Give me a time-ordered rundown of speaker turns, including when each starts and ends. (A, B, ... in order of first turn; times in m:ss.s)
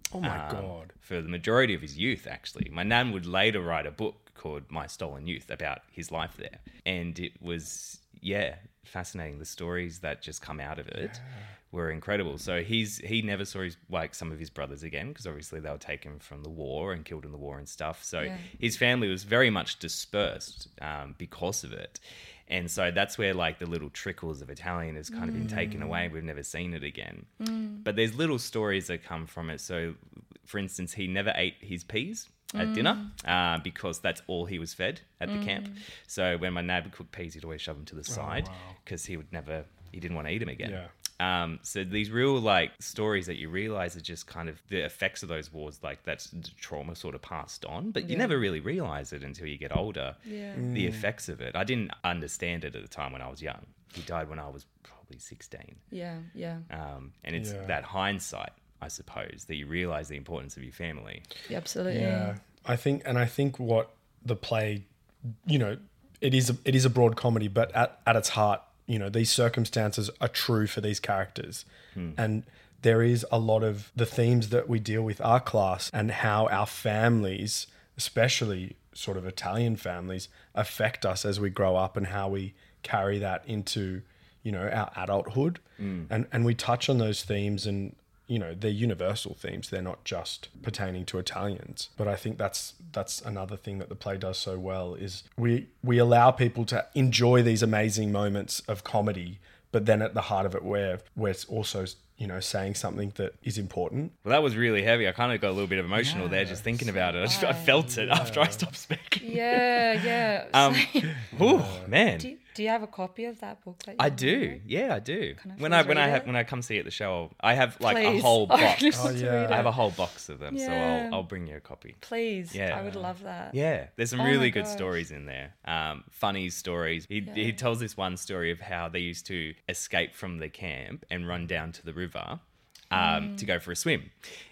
0:00.1-0:00.9 A
0:00.2-0:27.3 B
0:11.0-0:11.5 A
0:18.2-0:18.5 C
0:25.1-0:25.8 C
0:25.4-0:26.0 A
0:27.4-0:27.9 C
0:27.8-0:50.2 B
0:32.5-0:33.1 C
0:35.3-0:35.8 C
0:38.1-0:38.8 A
0:40.6-0:40.9 A
0:48.0-0:48.4 C
0:50.2-0:50.7 C
0:50.5-0:51.1 A
0:50.7-0:55.8 B
0:55.9-0:56.7 C
0:56.7-1:01.3 B
0:57.4-0:57.8 A
1:01.5-1:02.4 C
1:01.9-1:04.9 A
1:05.4-1:44.2 A
1:25.8-1:26.1 B
1:44.2-1:52.3 B
1:46.0-1:47.1 A
1:47.2-1:47.9 C
1:47.8-1:48.7 A
1:49.2-1:51.3 C
1:51.3-1:51.9 A
1:52.2-1:54.6 C
1:54.0-2:14.1 B
1:55.4-1:56.3 C
1:57.8-1:59.7 C
1:58.9-1:59.7 A
2:00.5-2:01.2 C
2:02.0-2:03.6 C
2:04.2-2:04.9 C
2:07.2-2:07.6 C
2:12.9-2:13.5 C